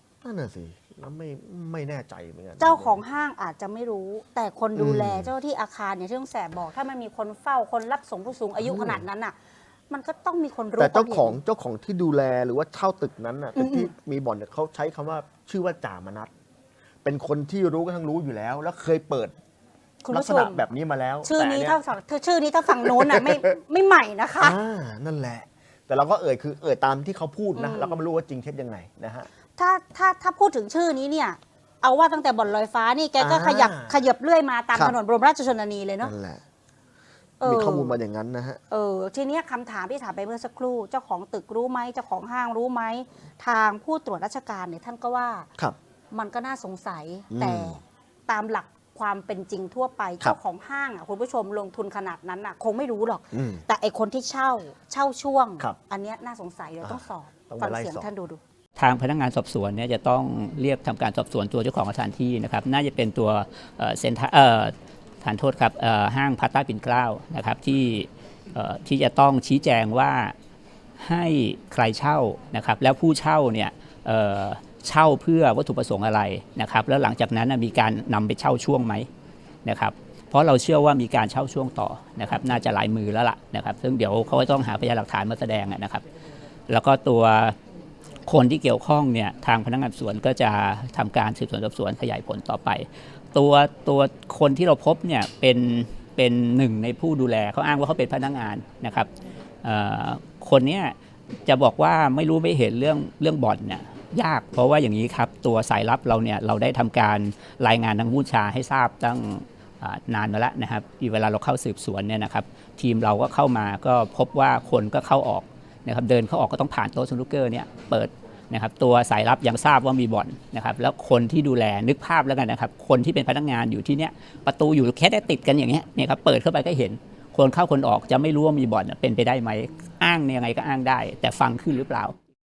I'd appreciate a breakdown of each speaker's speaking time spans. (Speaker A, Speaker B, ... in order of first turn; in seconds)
Speaker A: 0.2-3.0, 4.7-5.3, 8.6-9.0, 10.8-16.3, 17.0-19.3, 20.1-21.8, 22.8-23.4, 24.4-29.3, 33.2-34.0, 36.0-36.4, 37.4-38.6, 47.3-47.8, 53.3-53.6, 56.8-58.1
Speaker B: 2.6-9.3, 9.9-11.4, 13.6-13.9, 20.0-20.6, 21.2-24.6, 27.6-28.0, 29.6-36.1, 37.4-38.0, 38.7-45.5, 46.1-58.4
Speaker C: 58.8-70.3, 71.0-79.1, 79.6-86.0, 86.7-87.5, 88.3-99.1, 99.6-100.9, 101.5-132.1